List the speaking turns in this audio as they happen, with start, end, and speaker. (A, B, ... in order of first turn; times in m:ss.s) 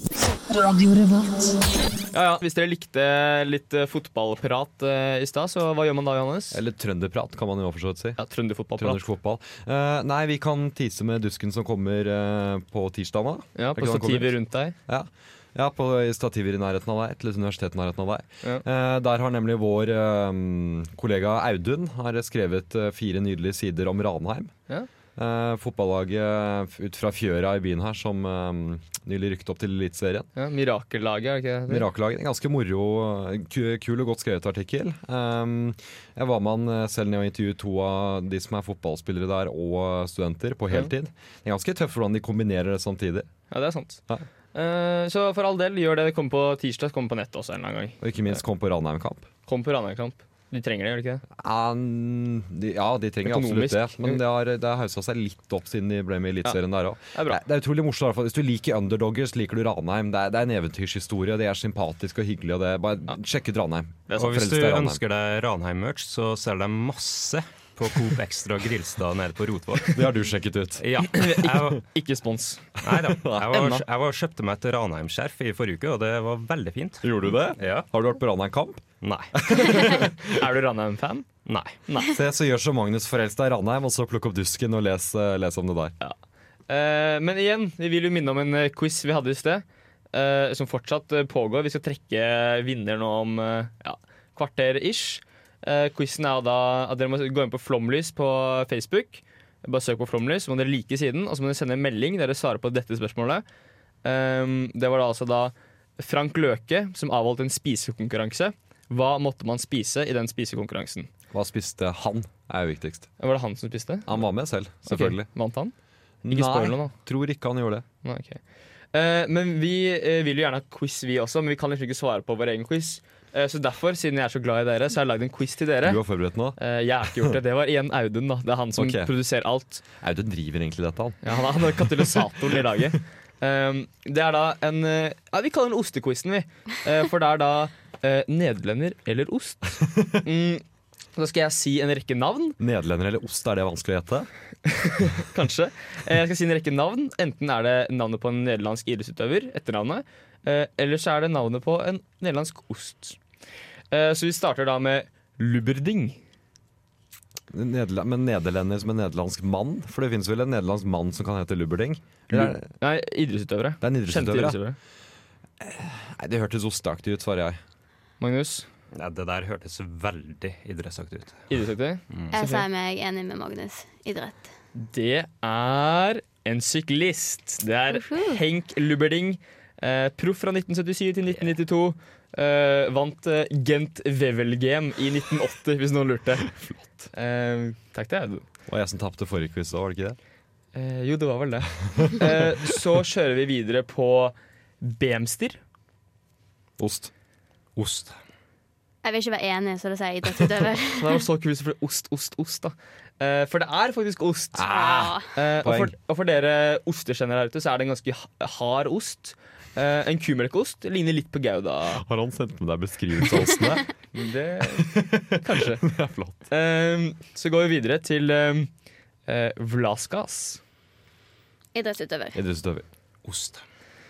0:02.1-0:06.6 A
0:06.5-0:08.2 B
0:08.2-0:09.0 A
0:08.8-0:14.4 B
0:13.6-0:14.8 A
0:14.9-0:24.5 B
0:25.2-0:30.3 B
0:30.4-0:31.8 A
0:31.7-0:43.3 B
0:43.5-0:44.0 A
0:44.5-0:48.4 A
0:48.0-0:49.2 B
0:49.5-0:51.2 A
0:51.4-1:05.0 B
0:53.2-0:54.2 A
0:57.1-0:57.4 A
1:04.2-1:10.0 C
1:09.9-1:10.8 B
1:10.8-1:11.8 C
1:11.1-1:12.7 A
1:12.8-1:17.9 C
1:12.9-1:13.6 B
1:13.5-1:13.8 A
1:17.0-1:18.8 B
1:19.0-1:19.9 C
1:19.3-1:20.2 B
1:19.6-1:21.3 A
1:21.4-1:21.8 C
1:21.9-1:22.2 A
1:22.1-1:25.9 B
1:26.7-1:43.4 A
1:44.0-1:51.1 A
1:51.3-1:53.1 B
1:53.2-1:54.2 A
1:54.1-1:55.3 B
1:54.8-1:55.7 A
1:56.2-1:57.8 B
1:56.3-1:56.9 A
1:58.0-1:58.4 A
1:58.9-2:06.0 A
2:05.8-2:06.6 B
2:06.6-2:09.8 A
2:08.7-2:09.1 B
2:10.0-2:12.3 B
2:11.2-2:20.6 A
2:21.2-2:22.6 A
2:22.6-2:24.3 B
2:24.7-2:33.2 A
2:33.9-2:36.2 A
2:37.5-2:42.6 B
2:42.3-2:44.8 A
2:43.8-2:44.6 B
2:45.6-2:47.6 B
2:48.2-2:48.7 A
2:48.9-2:51.5 C
2:51.5-2:52.6 A
2:52.3-2:54.5 D
2:54.7-3:06.5 A
2:57.9-2:58.4 D
3:06.6-3:07.1 B
3:07.1-3:08.4 A
3:08.7-3:10.2 B
3:10.7-3:15.6 A
3:16.8-3:17.1 B
3:17.8-3:18.2 C
3:19.0-3:21.2 D
3:20.9-3:24.7 A
3:24.5-3:25.9 B
3:24.6-3:25.3 D
3:25.3-3:32.0 A
3:31.9-3:33.8 B
3:34.1-3:35.9 A
3:34.7-3:36.4 B
3:36.5-3:38.7 A
3:39.3-3:40.6 A
3:41.7-3:42.4 D
3:42.3-3:42.8 B
3:43.2-3:43.6 C